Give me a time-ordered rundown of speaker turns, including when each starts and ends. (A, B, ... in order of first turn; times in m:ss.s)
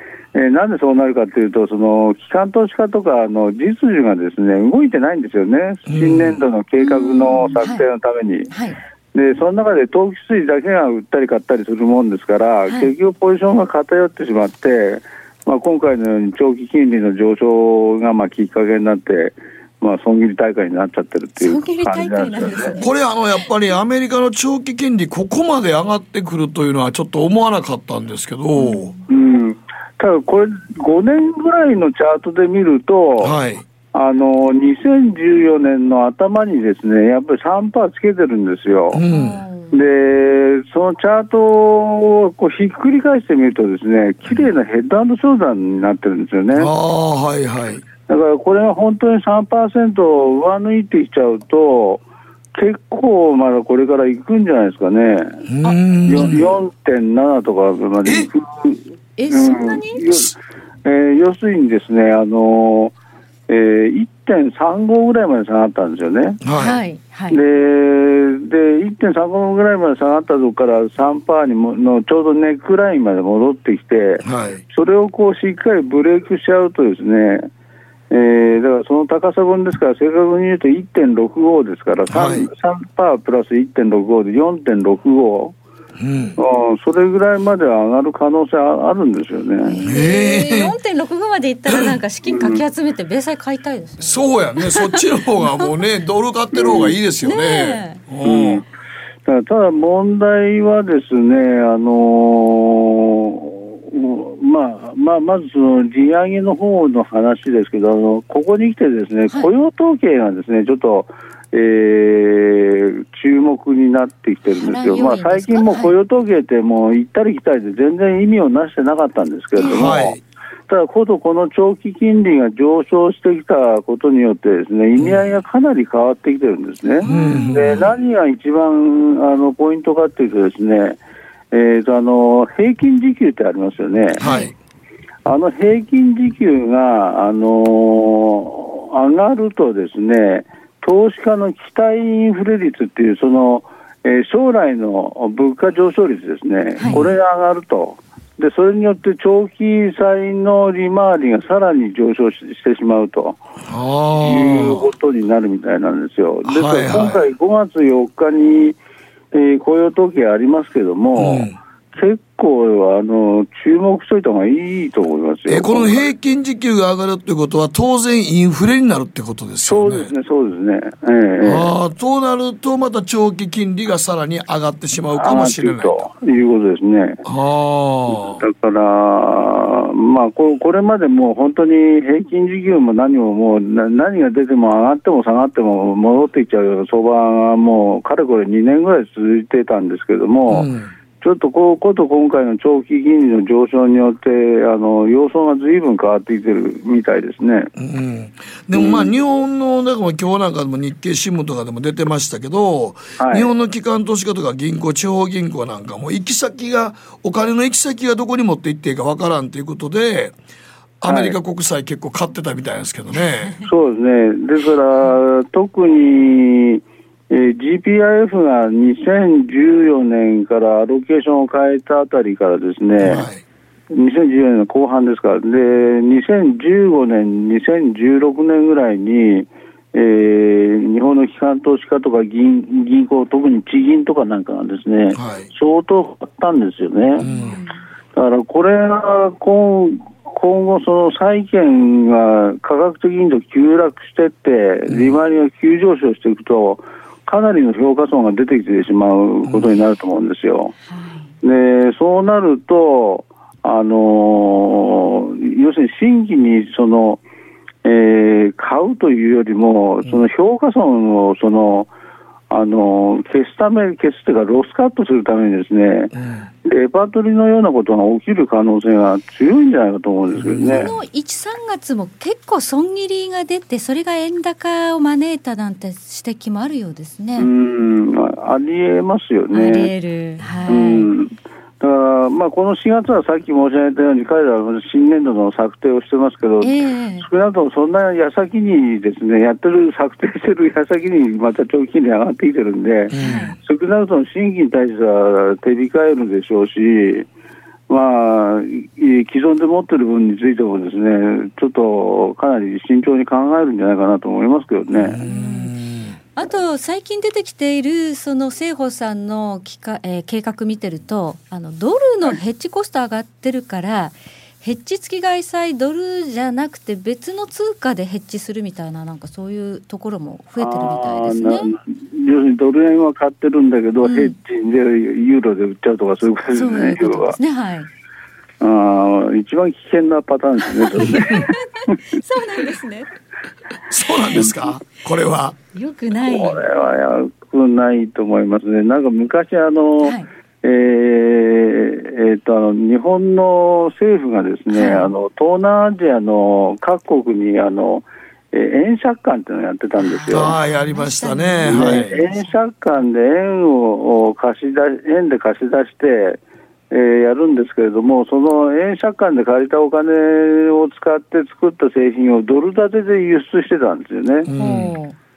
0:00.3-0:08.5 A
0:05.9-0:06.4 B
0:06.8-0:07.8 C
0:08.5-0:08.8 C
0:09.1-0:22.8 A
0:21.4-0:22.9 C
0:22.8-0:28.9 B
0:29.1-0:33.4 A
0:33.2-0:33.6 B
0:33.9-0:39.0 A
0:38.9-0:39.4 B
0:39.1-0:39.8 C
0:39.7-0:46.7 A
0:46.5-0:47.8 B
0:48.0-0:52.0 A
0:52.6-0:55.4 A
0:55.5-0:56.6 B
0:56.1-1:00.3 A
0:58.0-0:58.3 B
0:59.2-1:00.0 C
1:00.8-1:02.9 A
1:03.5-1:06.4 A
1:06.4-1:06.8 B
1:06.6-1:07.4 C
1:07.3-1:17.4 A
1:14.2-1:14.6 B
1:18.1-1:25.6 A
1:22.1-1:22.5 B
1:26.0-1:26.4 B
1:26.4-1:29.8 A
1:29.6-1:34.2 C
1:29.8-1:30.7 B
1:32.3-1:32.6 A
1:34.0-1:38.6 B
1:36.6-1:36.9 A
1:36.7-1:38.0 C
1:38.2-1:38.6 A
1:39.2-2:00.2 A
1:54.5-1:55.9 C
1:59.6-2:00.2 B
1:59.6-2:00.0 C
2:00.7-2:11.0 A
2:05.0-2:05.3 B
2:07.0-2:07.9 B
2:11.5-2:14.3 A
2:14.2-2:14.5 B
2:14.2-2:14.5 C
2:15.2-2:33.4 A
2:26.8-2:27.1 B
2:33.6-2:34.9 B
2:34.2-2:38.8 A
2:36.4-2:37.3 B
2:39.3-2:46.0 A
2:41.2-2:41.6 B
2:45.5-2:50.1 B
2:49.6-2:51.7 A
2:51.4-2:56.1 B
2:55.1-2:57.2 A
2:57.2-2:58.4 B
2:58.1-3:10.7 A
3:10.5-3:10.9 B
3:11.2-3:17.7 A
3:17.8-3:30.3 B
3:23.2-3:23.5 A
3:31.0-3:33.6 B
3:31.0-3:31.4 A
3:33.6-3:43.3 A
3:43.0-3:43.4 B
3:43.9-3:57.6 A
3:55.1-3:55.5 B
3:57.2-3:57.6 B
3:58.1-4:10.7 A
4:04.9-4:05.2 B
4:09.5-4:09.8 B
4:10.8-4:11.3 C
4:11.4-4:17.2 A
4:17.8-4:21.9 A
4:22.5-4:26.1 A
4:26.1-4:26.5 B
4:26.6-4:30.9 A
4:30.3-4:30.9 B
4:30.7-4:37.5 C
4:37.4-4:39.9 A
4:39.5-4:41.1 C
4:40.6-4:57.3 A
4:46.6-4:47.2 C
4:53.1-4:53.5 B
4:53.2-4:53.6 C
4:57.9-5:05.2 A
5:04.9-5:06.2 B
5:05.2-5:05.7 C
5:06.4-5:21.7 C
5:20.6-5:27.4 A
5:24.0-5:24.4 C
5:26.5-5:27.9 C
5:28.6-5:32.0 A
5:31.7-5:33.1 C
5:33.9-5:35.6 B
5:35.7-5:36.6 C
5:36.2-5:50.6 A
5:40.0-5:40.3 C
5:44.7-5:45.1 C
5:50.0-5:52.6 C
5:50.3-5:52.2 B
5:51.6-5:56.4 A
5:56.9-6:04.5 A
6:04.4-6:04.9 B
6:04.6-6:05.2 C